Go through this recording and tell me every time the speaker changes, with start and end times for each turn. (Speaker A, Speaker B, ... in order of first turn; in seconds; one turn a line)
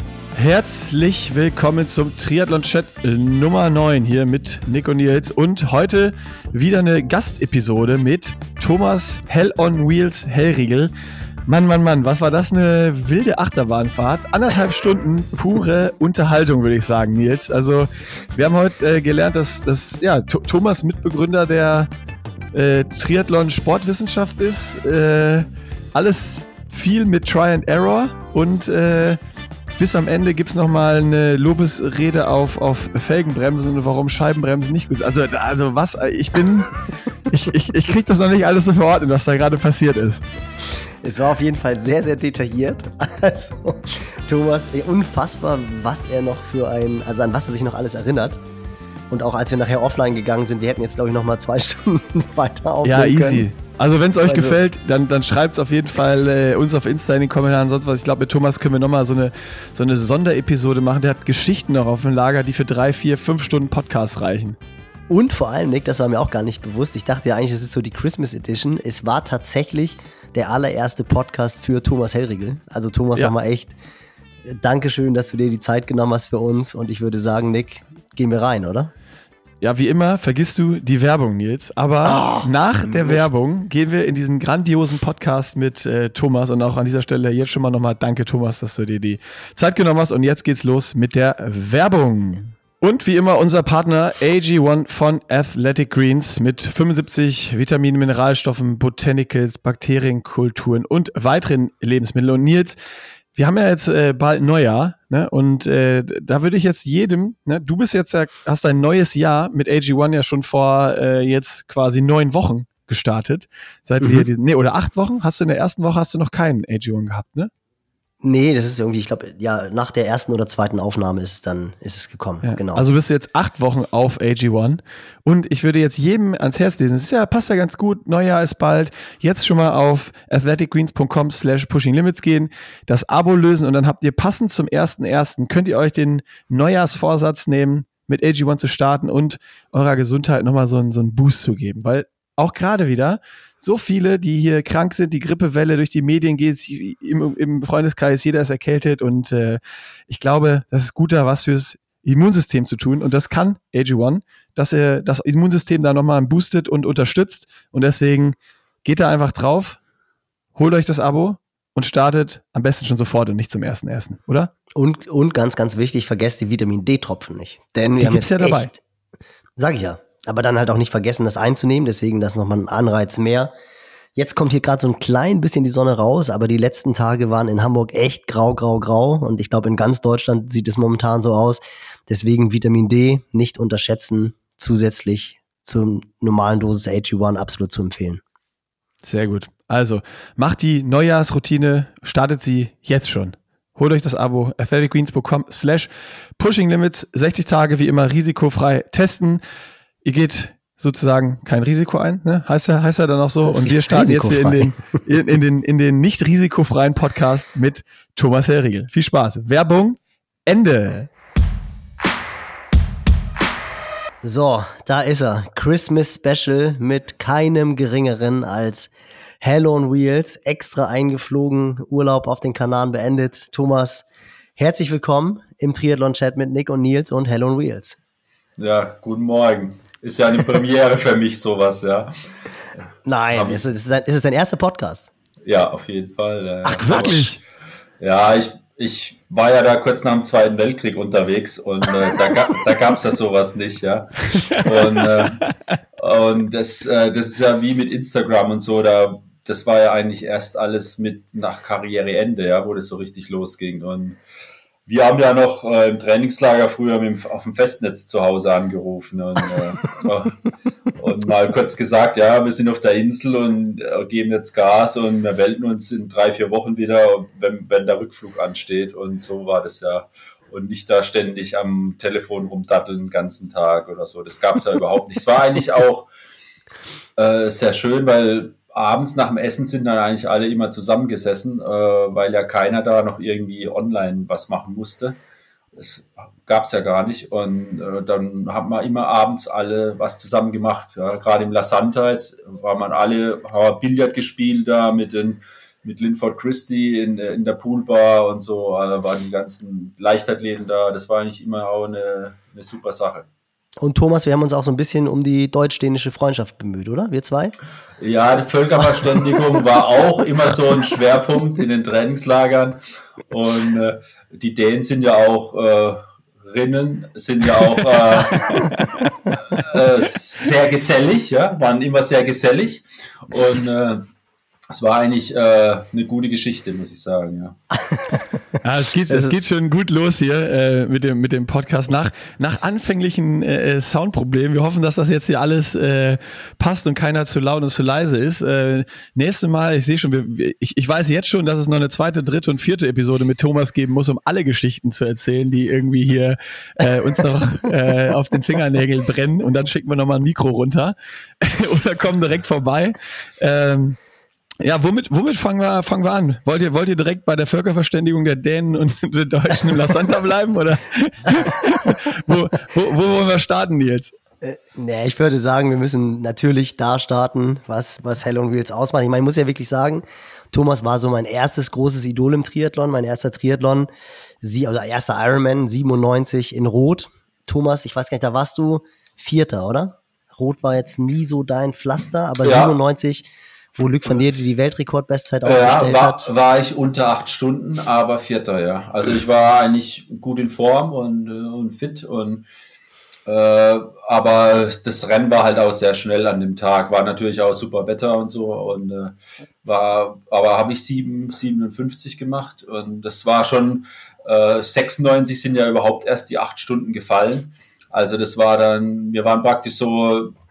Speaker A: 0.3-10.9
Speaker A: 11.5-21.9
Speaker A: 22.5-29.2
Speaker A: 29.8-36.7
Speaker A: 37.3-40.2
Speaker B: 41.0-48.4
Speaker B: 49.1-53.5
Speaker A: 52.8-64.6
Speaker B: 54.2-54.6
Speaker B: 65.1-73.8
Speaker B: 74.5-78.9
Speaker A: 79.6-102.8
Speaker B: 82.0-83.3
Speaker A: 103.3-117.5
Speaker B: 114.0-114.3
Speaker B: 118.2-122.8
Speaker A: 122.4-159.8
Speaker A: 160.6-164.5
Speaker B: 164.8-168.8
Speaker A: 168.0-168.7
Speaker B: 169.6-173.5
Speaker B: 174.2-188.2
Speaker A: 189.0-199.4
Speaker A: 200.0-211.1
Speaker B: 203.5-204.7
Speaker B: 214.2-224.1
Speaker B: 224.6-228.0
Speaker C: 228.6-232.1
Speaker B: 233.1-235.1
Speaker C: 233.3-233.6
Speaker C: 235.4-237.4
Speaker B: 236.6-237.3
Speaker A: 236.9-237.3
Speaker C: 238.0-245.4
Speaker C: 246.0-254.2
Speaker C: 254.9-260.4
Speaker C: 261.0-276.1
Speaker C: 277.2-285.2
Speaker C: 285.8-303.3
Speaker B: 303.8-307.6
Speaker C: 308.0-316.0
Speaker C: 316.5-318.7
Speaker C: 319.5-324.1
Speaker C: 324.7-327.6
Speaker A: 328.6-354.0
Speaker A: 354.6-364.1
Speaker B: 364.4-373.9
Speaker B: 374.4-386.3
Speaker C: 382.4-382.8
Speaker C: 385.4-392.4
Speaker C: 393.3-410.3